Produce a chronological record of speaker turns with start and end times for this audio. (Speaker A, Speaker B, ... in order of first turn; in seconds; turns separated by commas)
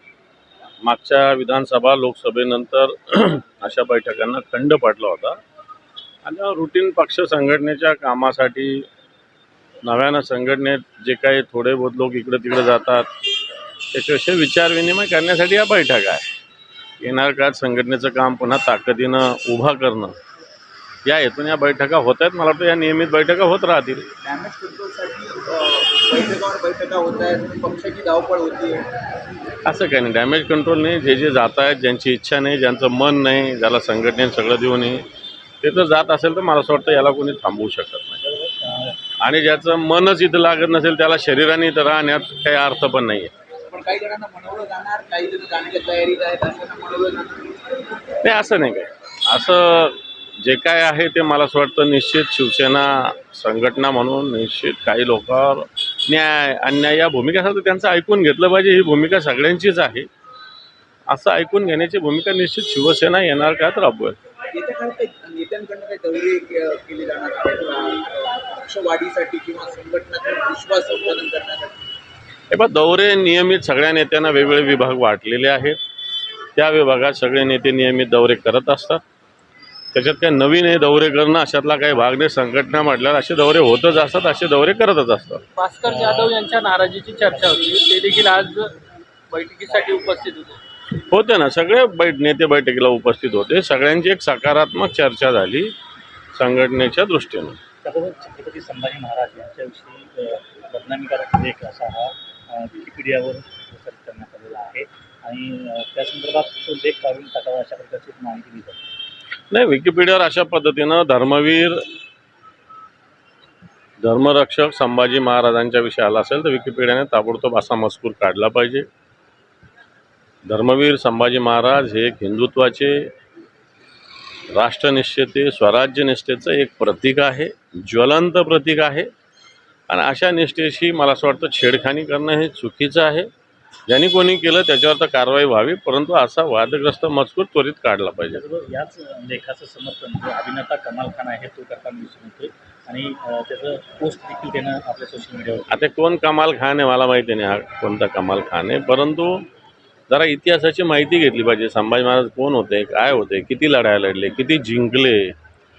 Speaker A: 0.8-5.4, Speaker A: 6.2-8.9, Speaker A: 9.8-13.1, Speaker A: 13.9-16.2, Speaker A: 17.0-20.1, Speaker A: 21.0-24.1, Speaker B: 24.2-28.8, Speaker A: 29.6-35.0, Speaker A: 35.6-38.2, Speaker C: 38.2-39.0, Speaker A: 39.2-43.3, Speaker B: 43.7-47.5, Speaker A: 48.2-60.1, Speaker A: 61.1-64.2, Speaker B: 64.5-71.8, Speaker A: 72.5-75.8, Speaker A: 76.5-79.0, Speaker A: 79.9-85.4, Speaker D: 85.5-88.7, Speaker D: 89.3-90.6, Speaker A: 91.1-95.7, Speaker A: 96.3-97.6, Speaker C: 97.8-108.8, Speaker A: 109.5-111.8, Speaker A: 114.0-118.8, Speaker A: 120.5-123.0, Speaker A: 124.5-129.1, Speaker A: 129.9-133.3, Speaker A: 133.9-138.4, Speaker C: 138.3-145.8, Speaker A: 145.7-149.4, Speaker A: 150.1-155.3